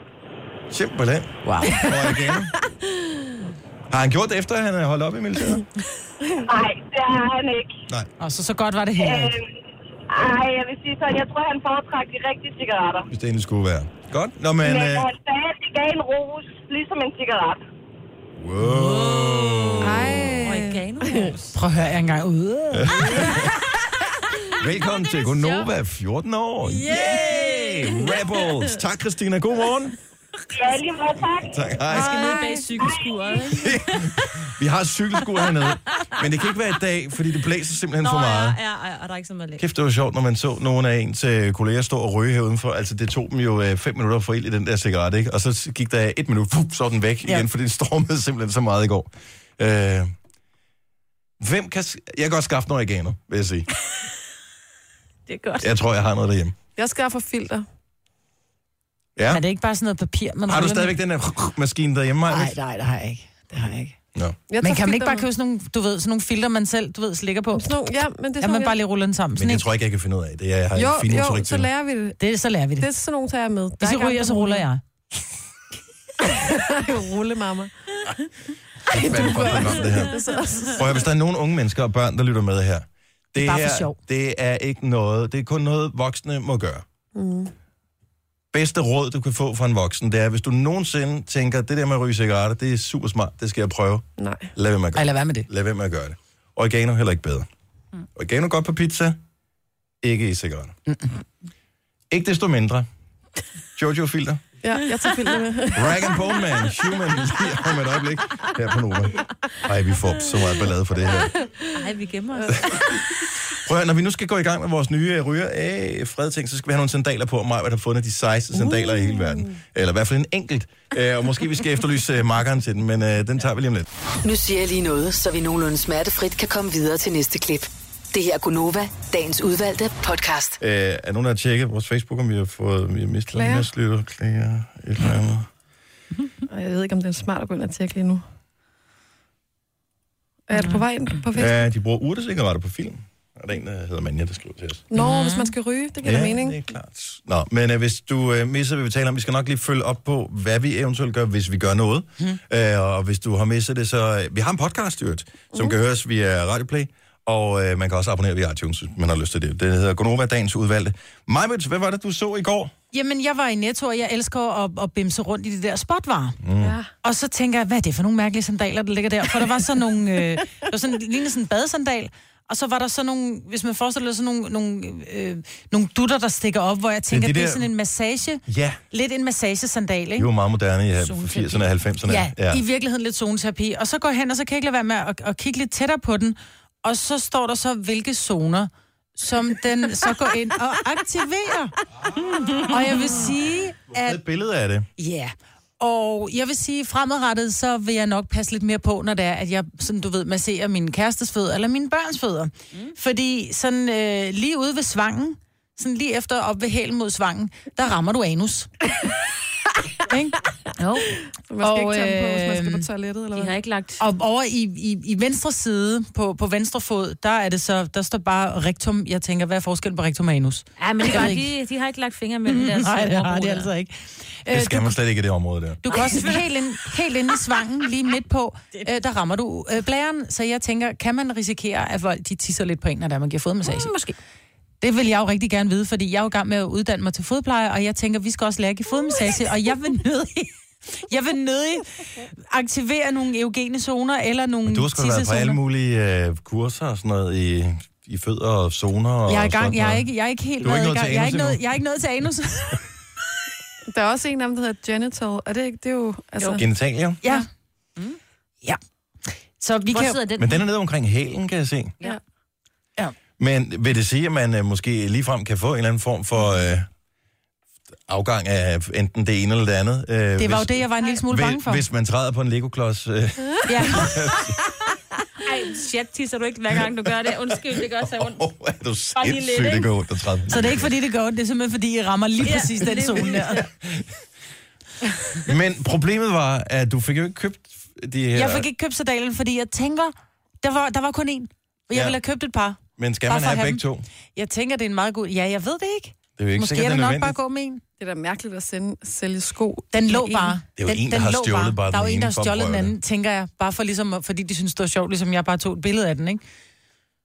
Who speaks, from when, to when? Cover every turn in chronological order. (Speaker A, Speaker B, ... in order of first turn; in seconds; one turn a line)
Speaker A: 0.7-2.5
Speaker B: 1.4-1.8
Speaker C: 1.7-3.3
Speaker A: 3.9-5.6
Speaker D: 6.5-7.8
Speaker B: 8.2-9.4
Speaker D: 9.0-9.5
Speaker D: 10.1-13.1
Speaker A: 13.1-15.1
Speaker D: 14.6-17.6
Speaker A: 18.4-20.5
Speaker B: 18.6-19.0
Speaker E: 18.7-21.5
Speaker C: 19.8-21.3
Speaker B: 21.5-23.5
Speaker A: 22.7-23.7
Speaker A: 24.5-29.9
Speaker E: 24.8-25.7
Speaker E: 26.7-28.7
Speaker D: 30.5-31.7
Speaker A: 31.4-32.3
Speaker E: 31.9-33.9
Speaker B: 31.9-32.6
Speaker D: 32.8-33.2
Speaker A: 33.5-38.6
Speaker E: 38.0-39.6
Speaker A: 39.6-50.1
Speaker A: 51.4-53.7
Speaker E: 55.3-55.7
Speaker A: 55.6-56.5
Speaker C: 56.8-57.6
Speaker A: 59.1-59.4
Speaker B: 59.3-61.0
Speaker A: 60.5-62.6
Speaker B: 62.3-64.0
Speaker C: 64.5-65.2
Speaker B: 64.6-67.7
Speaker C: 67.5-68.8
Speaker B: 68.4-69.7
Speaker A: 69.3-71.7
Speaker C: 70.7-72.2
Speaker B: 72.2-72.9
Speaker C: 72.8-74.7
Speaker B: 73.8-74.8
Speaker C: 76.2-77.7
Speaker A: 78.9-80.1
Speaker C: 78.9-81.0
Speaker A: 80.7-86.8
Speaker B: 83.3-84.0
Speaker C: 87.1-87.5
Speaker A: 88.5-97.5
Speaker C: 94.2-94.5
Speaker B: 94.9-95.5
Speaker A: 98.1-99.2
Speaker A: 100.0-100.8
Speaker A: 102.1-102.9
Speaker A: 103.8-104.4
Speaker C: 104.6-106.1
Speaker A: 105.7-111.3
Speaker C: 111.1-111.8
Speaker E: 111.7-112.7
Speaker C: 112.4-112.7
Speaker A: 113.5-123.9
Speaker F: 124.2-130.6
Speaker A: 130.6-135.5
Speaker C: 133.3-133.7
Speaker C: 136.5-138.2
Speaker C: 140.5-141.6
Speaker A: 141.3-144.8
Speaker C: 144.9-146.6
Speaker B: 144.9-145.5
Speaker A: 146.0-162.7
Speaker B: 162.9-166.4
Speaker A: 166.4-166.8
Speaker C: 166.6-166.8
Speaker B: 167.0-180.3
Speaker A: 177.1-177.7
Speaker A: 178.5-178.8
Speaker A: 180.2-182.6
Speaker E: 181.0-181.7
Speaker B: 182.1-191.7
Speaker E: 192.3-193.0
Speaker B: 192.7-194.2
Speaker A: 193.9-194.9
Speaker B: 195.0-208.7
Speaker B: 210.1-212.9
Speaker C: 211.5-213.5
Speaker E: 213.3-214.0
Speaker B: 214.0-221.5
Speaker E: 220.8-223.7
Speaker B: 222.5-224.9
Speaker A: 224.5-225.8
Speaker B: 225.8-233.9
Speaker E: 225.8-226.6
Speaker E: 233.6-234.2
Speaker B: 234.8-245.6
Speaker A: 244.6-250.1
Speaker B: 249.3-252.8
Speaker A: 250.6-251.6
Speaker C: 253.9-256.6
Speaker A: 256.6-257.2
Speaker B: 258.6-260.2
Speaker E: 259.9-260.6
Speaker A: 260.4-261.9
Speaker A: 263.4-266.9
Speaker A: 268.1-274.6
Speaker B: 270.4-271.8
Speaker B: 273.7-274.4
Speaker E: 275.4-278.4
Speaker A: 276.7-280.9
Speaker E: 279.1-279.9
Speaker B: 280.5-283.6
Speaker E: 282.4-283.6
Speaker A: 283.4-284.1
Speaker A: 285.4-288.6
Speaker B: 288.3-293.8
Speaker A: 291.9-292.2
Speaker A: 293.0-294.0
Speaker B: 294.3-297.8
Speaker A: 296.4-297.4
Speaker C: 298.0-300.5
Speaker B: 299.9-306.4
Speaker A: 300.8-302.9